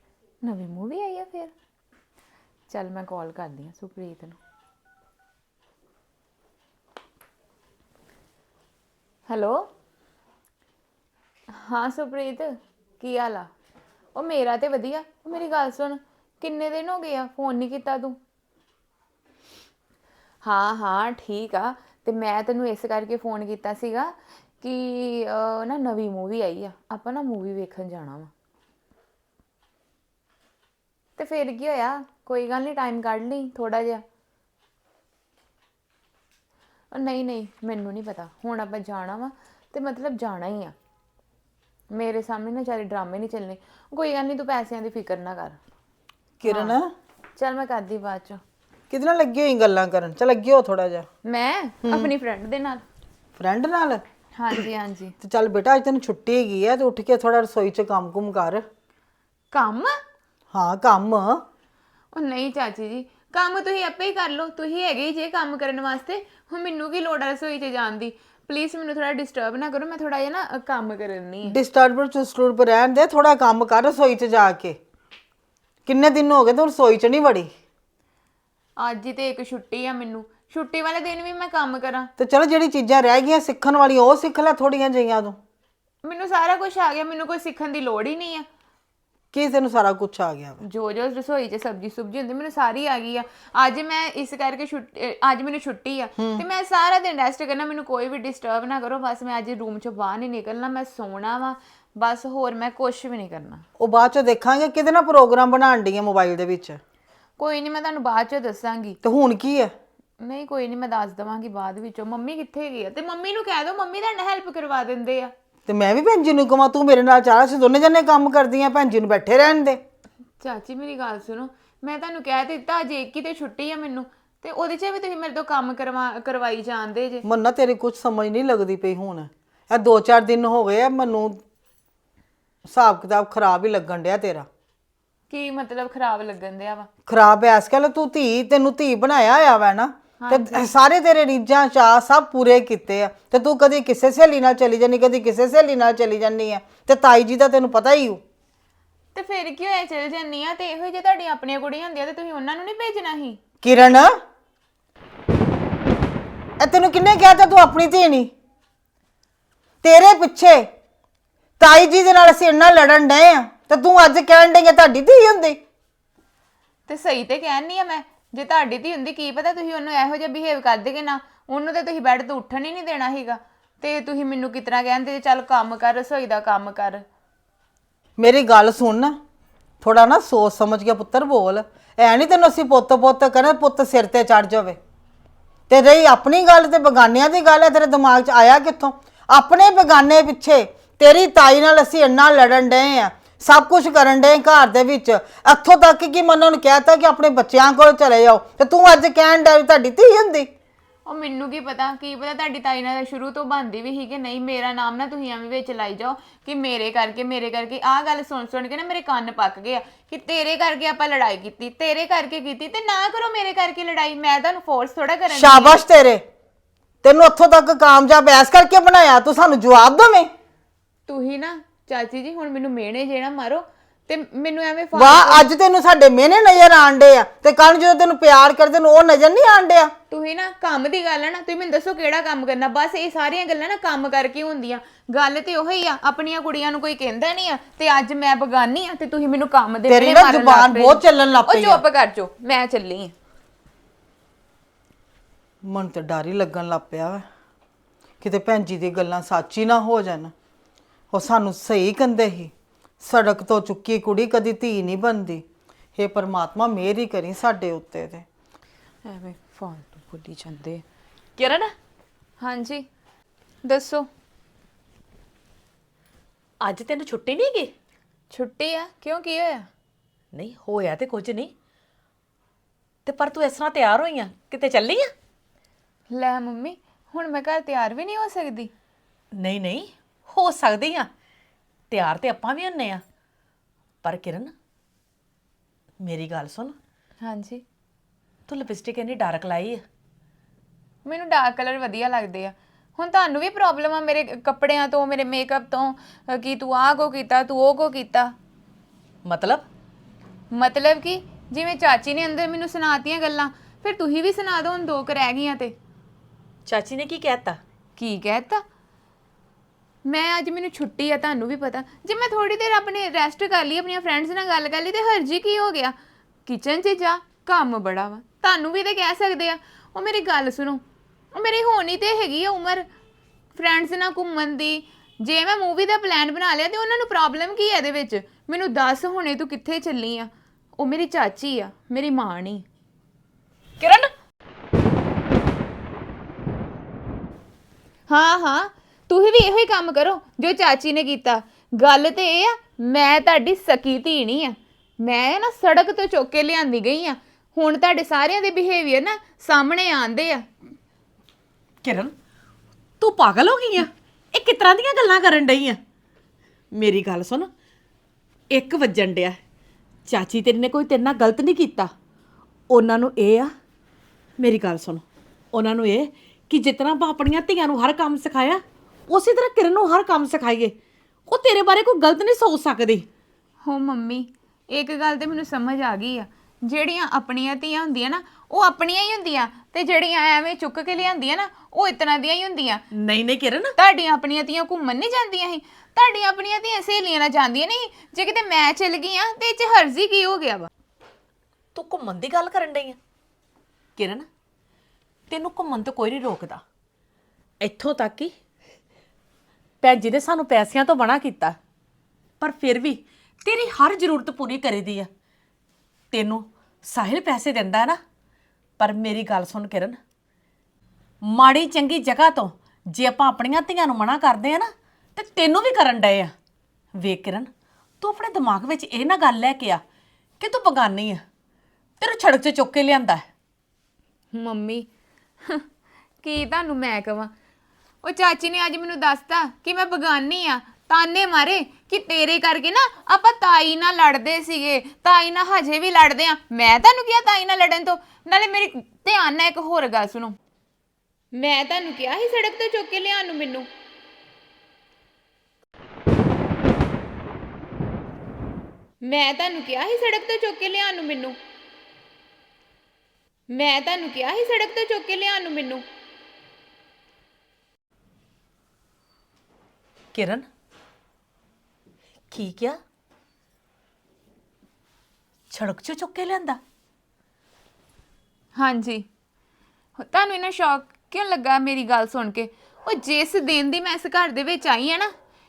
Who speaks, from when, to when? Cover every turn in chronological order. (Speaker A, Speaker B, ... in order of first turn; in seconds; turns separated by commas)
Speaker A: 0.4-1.5, Speaker A: 2.7-4.4, Speaker A: 9.3-9.7, Speaker A: 11.5-13.5, Speaker A: 14.1-18.2, Speaker A: 20.4-28.3, Speaker A: 31.2-34.0, Speaker A: 36.9-40.8, Speaker A: 41.9-45.6, Speaker B: 46.4-46.9, Speaker A: 46.5-46.8, Speaker A: 47.4-48.4, Speaker B: 48.9-51.1, Speaker A: 51.2-52.8, Speaker B: 51.8-52.1, Speaker B: 53.4-54.0, Speaker A: 54.4-55.1, Speaker B: 55.2-58.6, Speaker A: 59.5-60.0, Speaker B: 60.5-61.4, Speaker A: 62.1-71.6, Speaker B: 71.5-74.8, Speaker B: 75.9-77.5, Speaker A: 78.8-82.1, Speaker B: 82.2-85.4, Speaker A: 86.0-88.5, Speaker B: 89.3-90.6, Speaker A: 90.6-103.7, Speaker B: 96.2-96.4, Speaker B: 103.8-106.8, Speaker A: 107.4-109.0, Speaker B: 109.0-109.7, Speaker A: 110.2-115.3, Speaker B: 115.7-119.8, Speaker A: 120.4-127.2, Speaker B: 127.2-131.4, Speaker B: 132.7-134.5, Speaker A: 135.3-136.9, Speaker B: 137.1-148.2, Speaker A: 140.2-140.7, Speaker A: 149.1-153.4, Speaker B: 153.6-154.1, Speaker B: 156.6-158.3, Speaker B: 159.8-160.7, Speaker B: 161.6-165.6, Speaker A: 166.9-177.0, Speaker B: 178.2-179.2, Speaker B: 179.8-184.8, Speaker B: 185.7-200.5, Speaker A: 201.1-215.8, Speaker B: 215.3-216.2, Speaker B: 217.0-220.3, Speaker A: 221.1-225.5, Speaker B: 224.9-229.9, Speaker A: 230.1-243.2, Speaker B: 239.9-241.8, Speaker B: 245.7-247.2, Speaker B: 248.2-250.3, Speaker B: 251.1-255.4, Speaker B: 256.0-258.3, Speaker A: 259.1-260.8, Speaker C: 261.4-261.7, Speaker A: 262.4-262.9, Speaker A: 263.6-264.1, Speaker C: 266.6-267.7, Speaker A: 268.3-269.7, Speaker C: 270.3-271.5, Speaker C: 273.1-275.1, Speaker A: 276.1-278.7, Speaker C: 279.4-281.1, Speaker C: 281.9-283.0, Speaker C: 284.0-284.5, Speaker C: 286.0-286.8, Speaker A: 287.2-287.6, Speaker C: 288.5-289.8, Speaker A: 291.1-298.3, Speaker C: 299.3-299.6, Speaker A: 300.5-305.8, Speaker C: 306.7-307.6, Speaker A: 308.0-308.6, Speaker A: 310.1-315.9, Speaker A: 316.5-320.8, Speaker A: 321.3-322.9, Speaker A: 323.6-332.6, Speaker C: 333.8-334.1, Speaker A: 338.1-350.4, Speaker C: 351.8-352.1, Speaker C: 353.0-355.8, Speaker C: 356.8-357.5, Speaker C: 358.5-359.4, Speaker C: 360.1-361.9, Speaker C: 362.7-363.5, Speaker C: 364.4-370.8, Speaker C: 371.3-373.1, Speaker A: 373.6-382.8, Speaker C: 383.0-383.7, Speaker A: 383.8-390.7, Speaker C: 391.8-393.0, Speaker C: 394.0-394.3, Speaker C: 395.3-396.6, Speaker C: 397.6-398.3, Speaker C: 399.8-401.6, Speaker C: 402.4-405.1, Speaker C: 406.1-408.0, Speaker C: 408.8-410.0, Speaker C: 411.2-416.3, Speaker C: 417.0-417.5, Speaker C: 418.0-419.8, Speaker C: 420.4-421.2, Speaker C: 422.0-423.2, Speaker A: 424.3-424.9, Speaker A: 426.2-427.3, Speaker A: 428.0-440.4, Speaker A: 441.4-443.7, Speaker A: 449.0-451.4, Speaker A: 453.5-455.8, Speaker C: 460.1-460.5, Speaker C: 462.3-462.8, Speaker C: 465.5-466.6, Speaker A: 468.6-469.1, Speaker A: 470.0-475.1